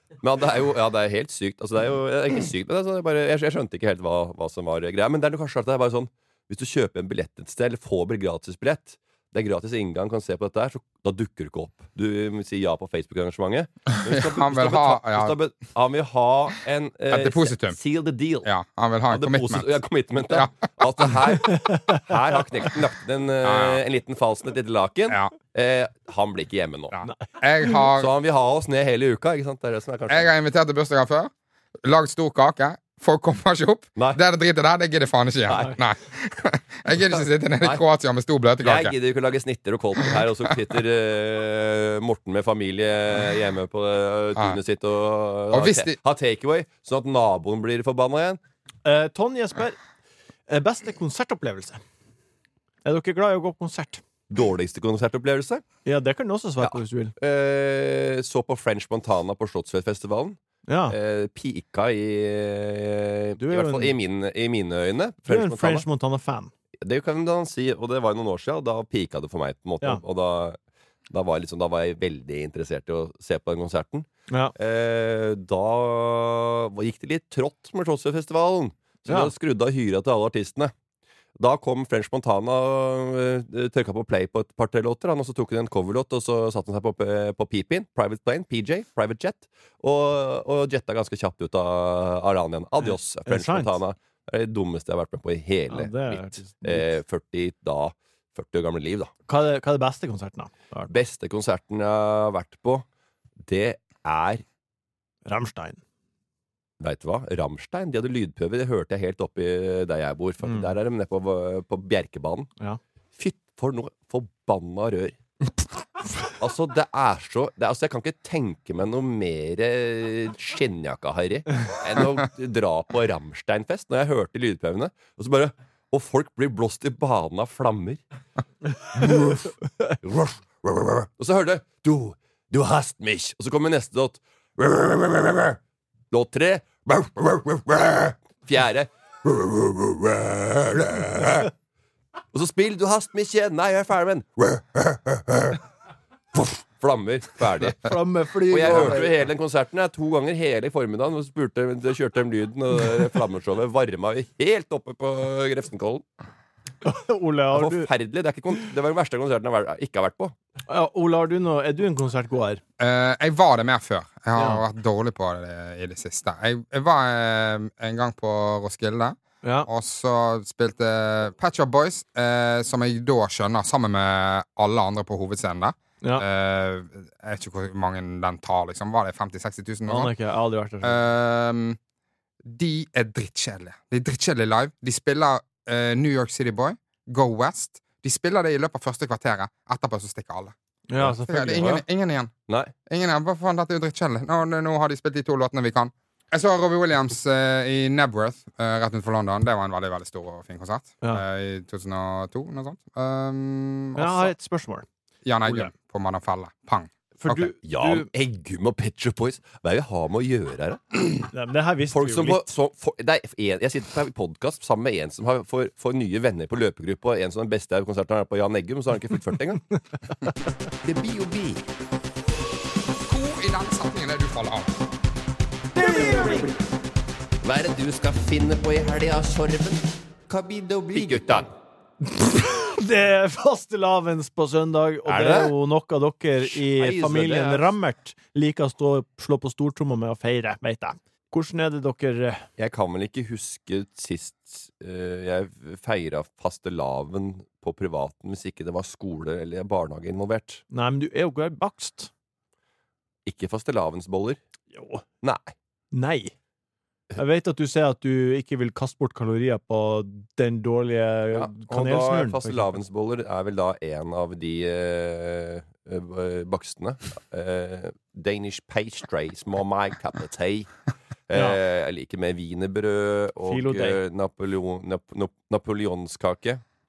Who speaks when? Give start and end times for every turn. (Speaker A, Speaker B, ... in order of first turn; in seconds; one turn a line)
Speaker A: 0.2-18.5
Speaker B: 13.9-15.4
Speaker B: 17.1-17.8
Speaker B: 18.4-19.8
Speaker A: 19.1-26.9
Speaker B: 20.3-21.4
Speaker C: 21.5-22.0
Speaker B: 23.4-23.8
Speaker B: 26.9-28.1
Speaker C: 27.0-27.8
Speaker A: 28.0-30.3
Speaker B: 30.1-31.3
Speaker B: 31.8-39.0
Speaker A: 34.0-34.2
Speaker C: 35.5-35.8
Speaker A: 38.6-48.4
Speaker B: 45.5-46.0
Speaker C: 48.8-49.8
Speaker C: 50.5-51.8
Speaker C: 52.9-54.0
Speaker A: 54.3-55.6
Speaker C: 55.9-57.1
Speaker A: 56.6-60.4
Speaker C: 60.7-61.0
Speaker A: 60.9-65.8
Speaker C: 63.4-63.9
Speaker C: 65.3-66.5
Speaker A: 66.8-70.6
Speaker A: 71.1-80.7
Speaker C: 74.3-74.5
Speaker C: 79.1-79.3
Speaker A: 81.4-99.1
Speaker C: 93.3-93.8
Speaker C: 95.7-96.9
Speaker C: 99.3-100.9
Speaker A: 100.9-102.8
Speaker A: 103.5-104.4
Speaker C: 105.2-105.8
Speaker A: 106.8-112.5
Speaker C: 110.4-110.7
Speaker A: 113.2-115.2
Speaker A: 116.4-128.0
Speaker A: 128.9-135.6
Speaker A: 136.1-141.5
Speaker A: 142.3-145.6
Speaker A: 146.3-147.9
Speaker C: 147.7-149.2
Speaker A: 148.5-156.1
Speaker C: 156.8-157.9
Speaker A: 157.5-160.3
Speaker C: 160.7-162.6
Speaker B: 162.8-180.1
Speaker C: 164.4-164.6
Speaker C: 169.4-169.7
Speaker C: 179.9-181.0
Speaker B: 180.8-181.8
Speaker B: 182.4-192.3
Speaker C: 190.9-191.8
Speaker B: 192.9-204.3
Speaker C: 204.0-204.9
Speaker B: 205.2-207.5
Speaker C: 205.5-205.7
Speaker C: 207.2-208.1
Speaker A: 207.7-211.3
Speaker C: 211.3-212.4
Speaker A: 211.9-219.7
Speaker A: 220.8-221.6
Speaker B: 223.1-224.8
Speaker C: 225.8-226.5
Speaker A: 225.9-226.4
Speaker A: 227.4-231.5
Speaker C: 232.0-242.5
Speaker A: 235.1-235.5
Speaker A: 236.4-237.7
Speaker A: 242.6-250.6
Speaker C: 250.7-252.1
Speaker A: 253.3-254.4
Speaker C: 254.7-255.0
Speaker A: 255.2-255.5
Speaker C: 255.9-256.3
Speaker C: 257.2-262.7
Speaker A: 261.3-270.7
Speaker A: 271.3-276.6
Speaker C: 271.3-271.6
Speaker C: 273.5-274.0